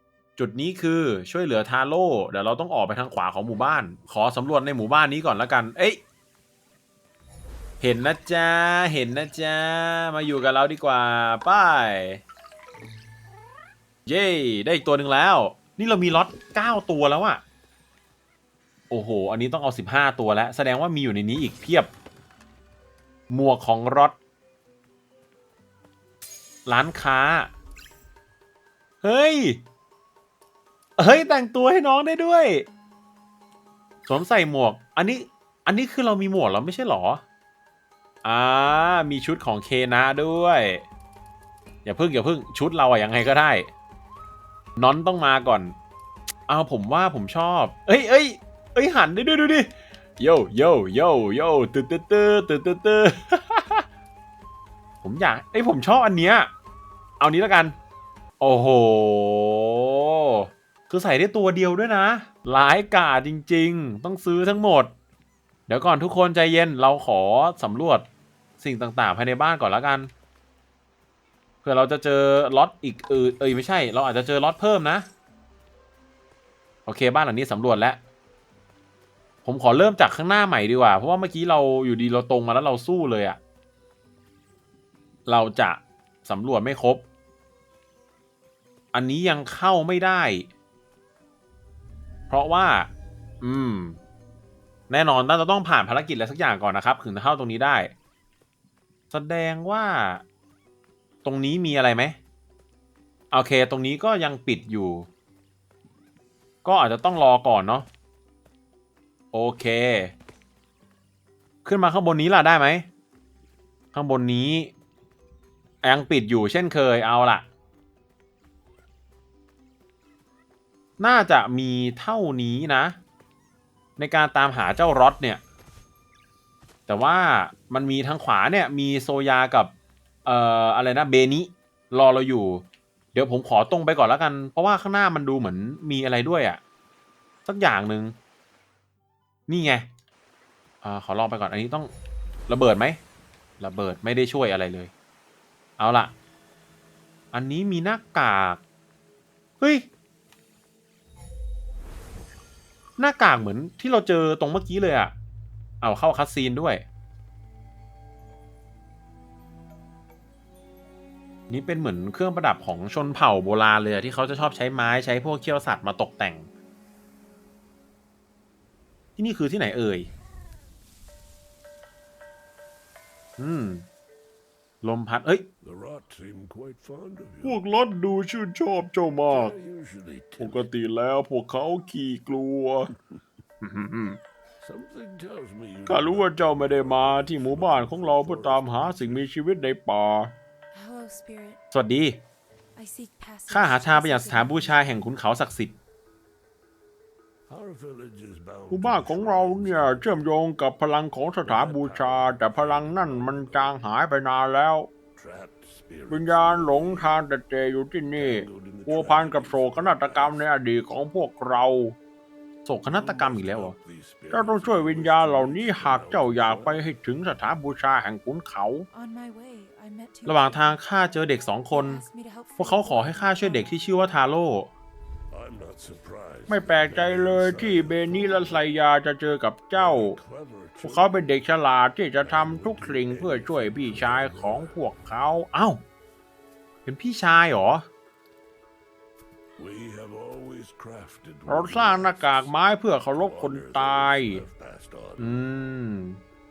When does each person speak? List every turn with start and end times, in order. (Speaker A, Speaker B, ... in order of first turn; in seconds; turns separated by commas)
Speaker A: 0.3-6.0, Speaker A: 7.8-12.2, Speaker A: 14.1-17.4, Speaker A: 18.9-21.9, Speaker A: 23.3-24.1, Speaker A: 26.6-27.5, Speaker A: 29.0-29.6, Speaker A: 31.0-32.6, Speaker A: 34.1-37.2, Speaker A: 38.2-40.8, Speaker A: 41.8-43.7, Speaker A: 44.8-45.7, Speaker A: 46.5-53.8, Speaker A: 55.0-56.5, Speaker A: 57.2-57.7, Speaker A: 58.4-64.9, Speaker A: 65.7-68.0, Speaker A: 68.6-70.1, Speaker A: 71.6-75.1, Speaker A: 76.8-78.0, Speaker A: 79.4-83.4, Speaker A: 85.2-87.0, Speaker A: 88.9-90.5, Speaker A: 92.3-92.9, Speaker A: 93.4-94.0, Speaker A: 94.9-97.9, Speaker A: 99.1-100.2, Speaker A: 101.2-102.2, Speaker A: 103.3-105.1, Speaker A: 106.6-107.9, Speaker A: 109.3-110.1, Speaker A: 111.6-112.9, Speaker A: 113.9-114.7, Speaker A: 115.8-117.5, Speaker A: 121.0-123.0, Speaker A: 124.0-125.4, Speaker A: 126.9-129.7, Speaker A: 130.2-136.6, Speaker A: 137.4-138.1, Speaker A: 139.5-139.9, Speaker A: 140.8-141.9, Speaker A: 142.5-143.0, Speaker A: 143.6-144.9, Speaker A: 145.8-146.1, Speaker A: 147.3-148.6, Speaker A: 149.6-149.9, Speaker A: 153.0-155.1, Speaker A: 155.8-156.8, Speaker A: 161.5-166.5, Speaker A: 169.2-170.1, Speaker A: 173.4-173.8, Speaker A: 174.8-175.5, Speaker B: 175.6-177.6, Speaker A: 177.4-179.5, Speaker B: 179.3-180.7, Speaker A: 180.4-182.9, Speaker A: 183.6-184.2, Speaker B: 184.6-189.3, Speaker A: 185.9-190.3, Speaker C: 190.7-191.6, Speaker A: 191.7-192.2, Speaker C: 192.7-195.0, Speaker A: 193.5-195.8, Speaker B: 197.5-200.3, Speaker A: 198.7-204.9, Speaker B: 201.4-203.8, Speaker B: 205.2-207.2, Speaker A: 206.1-212.0, Speaker B: 208.1-210.5, Speaker A: 212.6-213.7, Speaker B: 212.9-216.8, Speaker A: 214.3-218.8, Speaker C: 218.9-220.8, Speaker A: 220.2-222.0, Speaker C: 221.7-223.8, Speaker A: 222.6-224.7, Speaker B: 225.3-228.7, Speaker A: 226.5-230.2, Speaker B: 229.7-231.4, Speaker A: 230.8-235.8, Speaker B: 232.2-234.8, Speaker A: 236.8-237.9, Speaker B: 239.6-242.5, Speaker A: 241.5-244.4, Speaker B: 243.1-245.4, Speaker A: 245.2-246.2